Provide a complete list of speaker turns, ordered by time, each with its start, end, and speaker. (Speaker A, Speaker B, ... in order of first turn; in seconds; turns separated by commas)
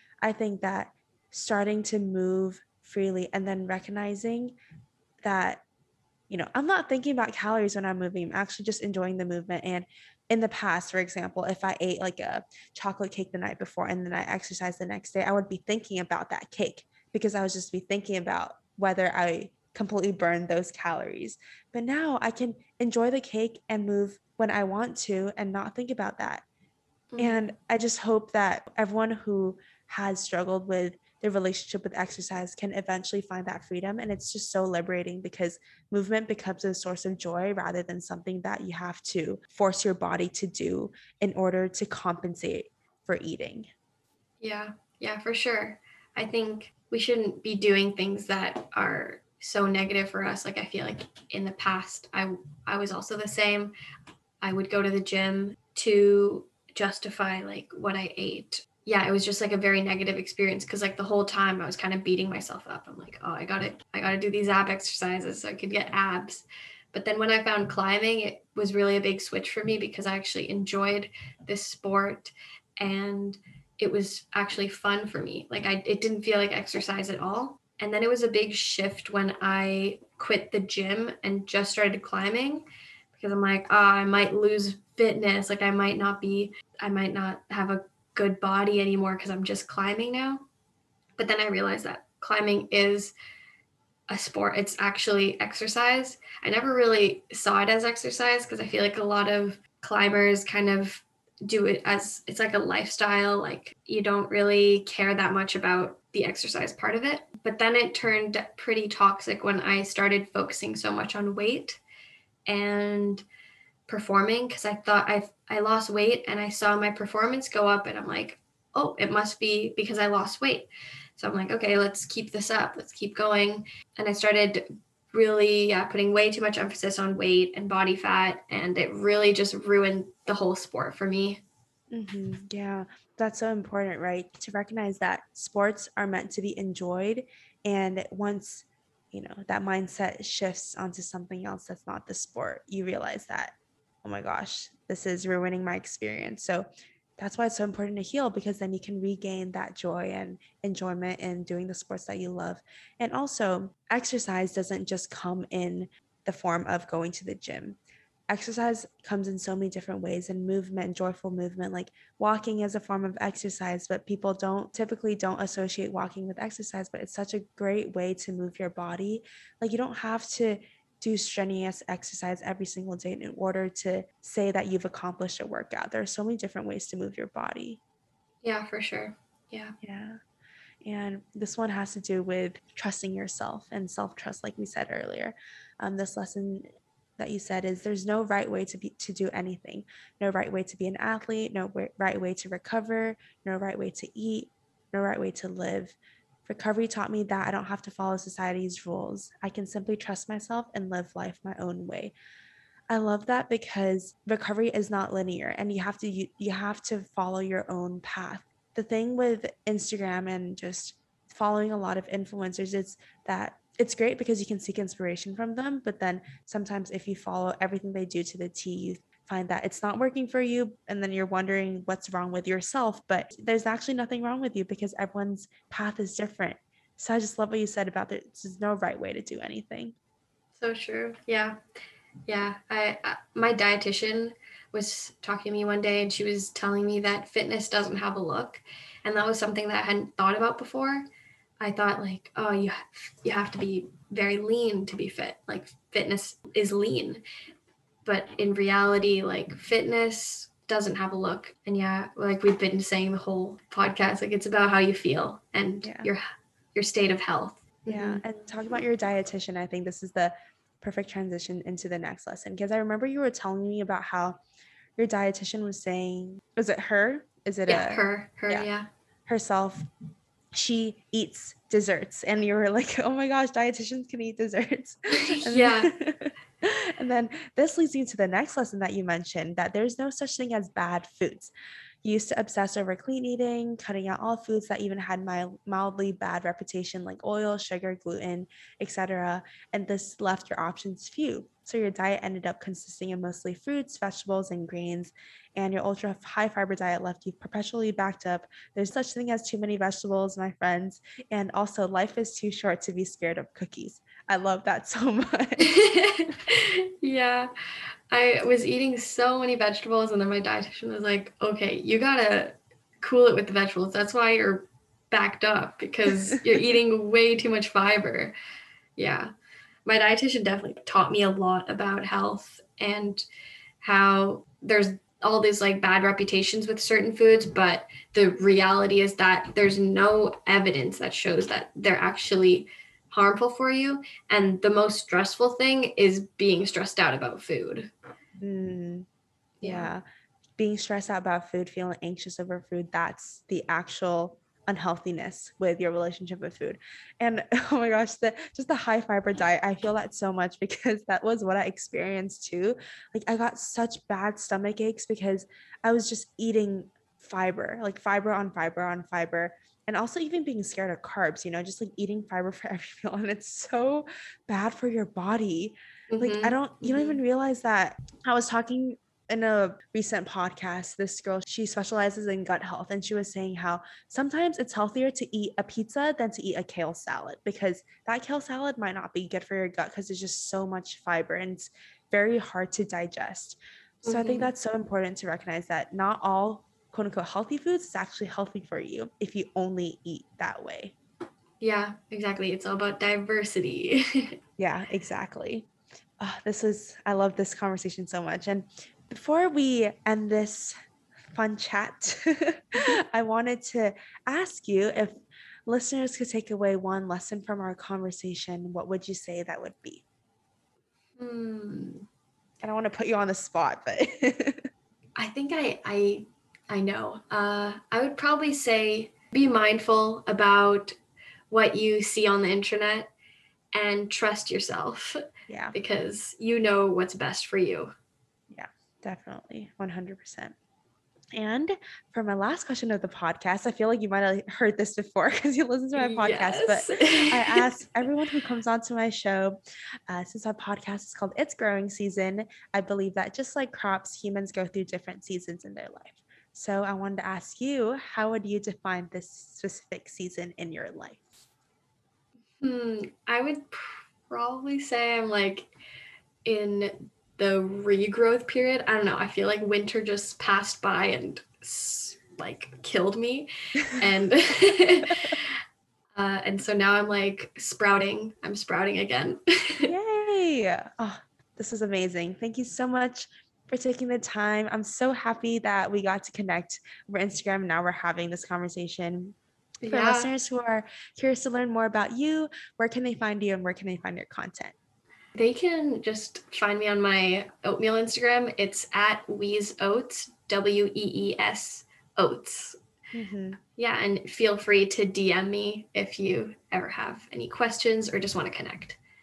Speaker A: 0.2-4.6, Speaker A: 5.2-5.6, Speaker A: 6.3-26.4, Speaker B: 27.1-27.4, Speaker A: 27.2-43.7, Speaker B: 44.4-53.7, Speaker B: 54.4-90.4, Speaker B: 91.2-93.1, Speaker B: 94.1-111.8, Speaker B: 112.5-113.2, Speaker B: 113.9-131.4, Speaker A: 131.9-146.7, Speaker A: 147.2-157.8, Speaker A: 158.3-177.8, Speaker B: 178.4-179.7, Speaker A: 179.8-180.2, Speaker A: 180.8-186.7, Speaker A: 187.2-195.9, Speaker A: 196.5-202.1, Speaker A: 202.9-229.9, Speaker B: 230.6-231.6, Speaker B: 232.3-241.1, Speaker B: 241.6-247.2, Speaker B: 248.1-256.2, Speaker A: 255.8-256.1, Speaker B: 256.8-258.2, Speaker A: 257.9-264.4, Speaker A: 265.0-268.7, Speaker B: 267.7-268.9, Speaker A: 269.3-269.9, Speaker A: 270.6-281.5, Speaker B: 275.1-275.9, Speaker A: 282.0-305.8, Speaker B: 305.6-307.5, Speaker B: 308.1-318.3, Speaker B: 319.0-319.3, Speaker B: 319.9-323.2, Speaker B: 323.8-337.9, Speaker A: 338.4-339.1, Speaker B: 339.6-339.9, Speaker A: 339.6-340.0, Speaker A: 340.6-390.9, Speaker B: 366.1-367.2, Speaker B: 384.0-384.5, Speaker B: 391.6-394.4, Speaker A: 394.6-395.7, Speaker A: 396.2-400.7, Speaker A: 401.3-405.2, Speaker A: 405.7-410.0, Speaker B: 411.2-412.1, Speaker A: 412.6-414.7, Speaker B: 415.2-421.0, Speaker B: 421.5-423.1, Speaker B: 423.8-427.9, Speaker A: 425.5-425.8, Speaker A: 428.5-430.6, Speaker A: 431.3-439.6, Speaker B: 436.0-438.1, Speaker A: 440.1-451.3, Speaker B: 452.6-455.7, Speaker B: 456.4-465.6, Speaker B: 466.2-469.9, Speaker A: 469.9-479.4, Speaker B: 479.8-480.3, Speaker A: 479.9-484.7, Speaker B: 485.4-492.8, Speaker A: 493.1-493.6, Speaker B: 493.8-499.0